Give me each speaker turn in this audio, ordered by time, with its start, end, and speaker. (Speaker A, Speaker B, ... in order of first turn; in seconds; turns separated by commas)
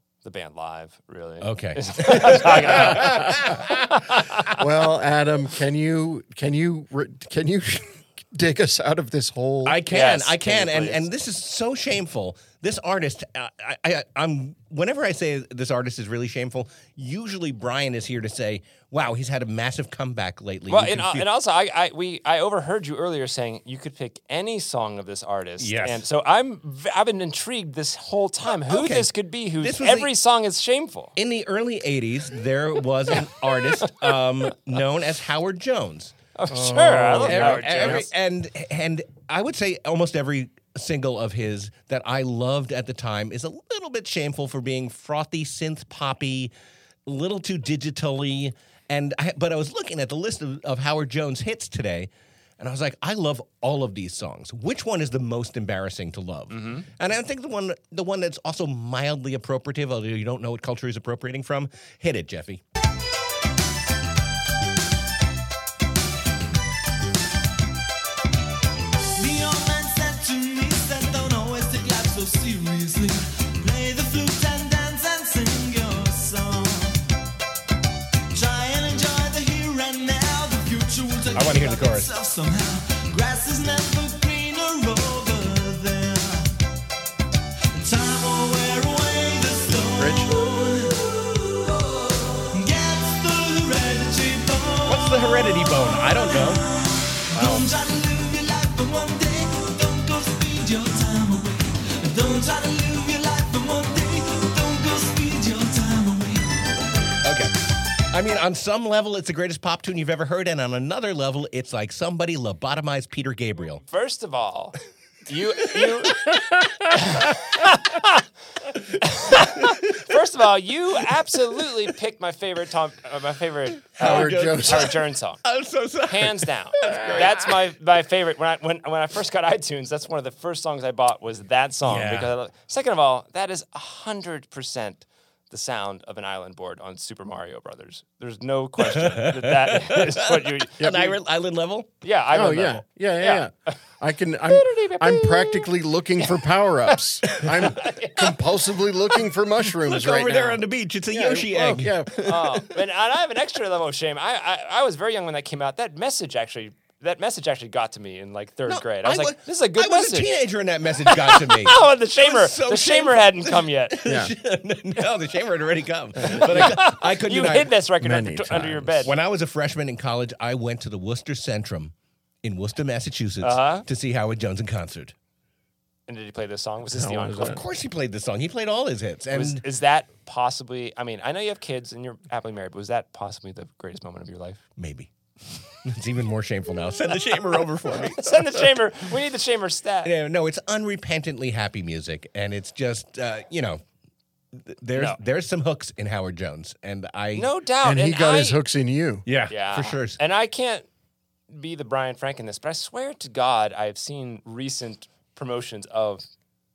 Speaker A: 0.2-4.3, Speaker B: 1.4-3.9, Speaker C: 2.6-3.2, Speaker C: 4.6-9.8, Speaker B: 9.6-21.3, Speaker A: 9.9-11.1, Speaker A: 20.7-31.1, Speaker B: 25.6-26.0, Speaker B: 28.7-29.1, Speaker B: 29.6-30.1, Speaker B: 31.1-46.5, Speaker A: 33.4-34.2, Speaker A: 36.4-38.1, Speaker C: 37.3-38.0, Speaker B: 47.0-62.6, Speaker A: 56.5-56.9, Speaker D: 69.2-77.0, Speaker D: 78.3-86.5, Speaker B: 81.3-82.1, Speaker D: 87.7-106.8, Speaker C: 89.7-90.3, Speaker B: 94.8-96.6, Speaker C: 97.4-97.6, Speaker B: 107.2-107.5, Speaker B: 108.1-113.8, Speaker A: 113.8-114.8, Speaker A: 115.3-116.3, Speaker A: 116.9-118.2, Speaker A: 119.0-125.4, Speaker B: 119.2-120.0, Speaker B: 124.0-127.5, Speaker C: 124.0-124.9, Speaker A: 126.0-140.9, Speaker B: 131.8-132.3, Speaker B: 138.8-141.9, Speaker C: 140.8-141.1, Speaker A: 142.0-143.7, Speaker C: 142.3-152.7, Speaker A: 144.4-145.7, Speaker A: 146.9-148.4, Speaker B: 149.8-152.1, Speaker A: 152.2-160.3, Speaker B: 158.7-167.7, Speaker A: 161.1-164.1, Speaker C: 164.0-164.3, Speaker C: 166.2-166.8, Speaker A: 166.4-169.1, Speaker C: 168.0-169.1, Speaker B: 169.0-175.1, Speaker A: 173.4-173.8, Speaker A: 176.1-177.6, Speaker C: 176.9-177.6, Speaker B: 177.4-179.6, Speaker A: 179.3-184.6, Speaker B: 184.8-185.1, Speaker B: 185.8-188.7, Speaker A: 188.0-190.1, Speaker B: 190.0-193.8, Speaker B: 194.5-197.5, Speaker A: 197.3-198.6, Speaker C: 197.8-199.2, Speaker B: 199.2-200.2, Speaker A: 199.5-200.8, Speaker A: 201.5-206.2